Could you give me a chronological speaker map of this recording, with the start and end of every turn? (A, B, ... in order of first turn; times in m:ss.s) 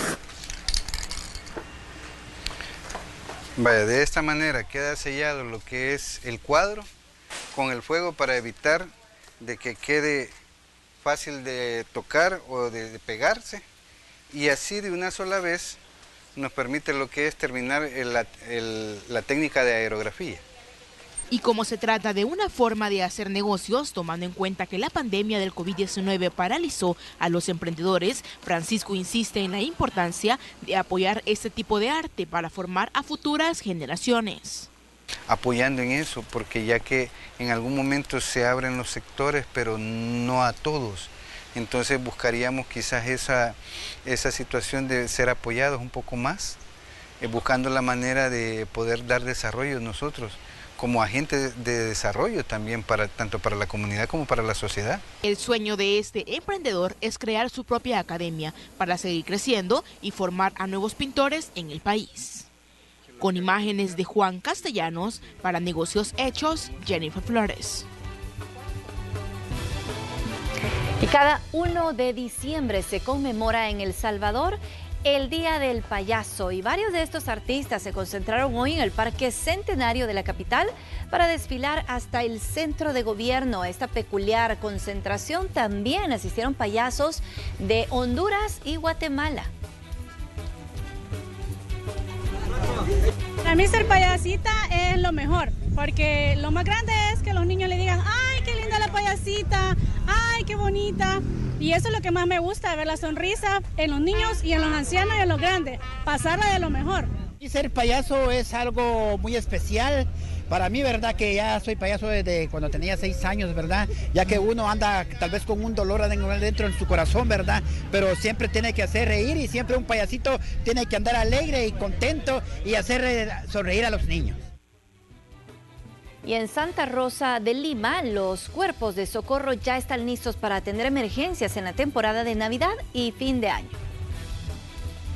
0:03.6-0:06.9 A
0:07.5-0:10.3 A
0:11.0-0:13.6 A
0:14.3-0:15.8 A
0:16.4-0:20.4 A
0:21.3-0:34.7 B
0:35.3-0:46.6 A
0:47.2-0:55.0 A
0:55.2-1:02.5 B
1:03.2-1:07.8 B
1:11.0-1:29.5 C
1:33.4-1:47.1 D
1:47.4-2:04.4 E
2:06.2-2:13.8 C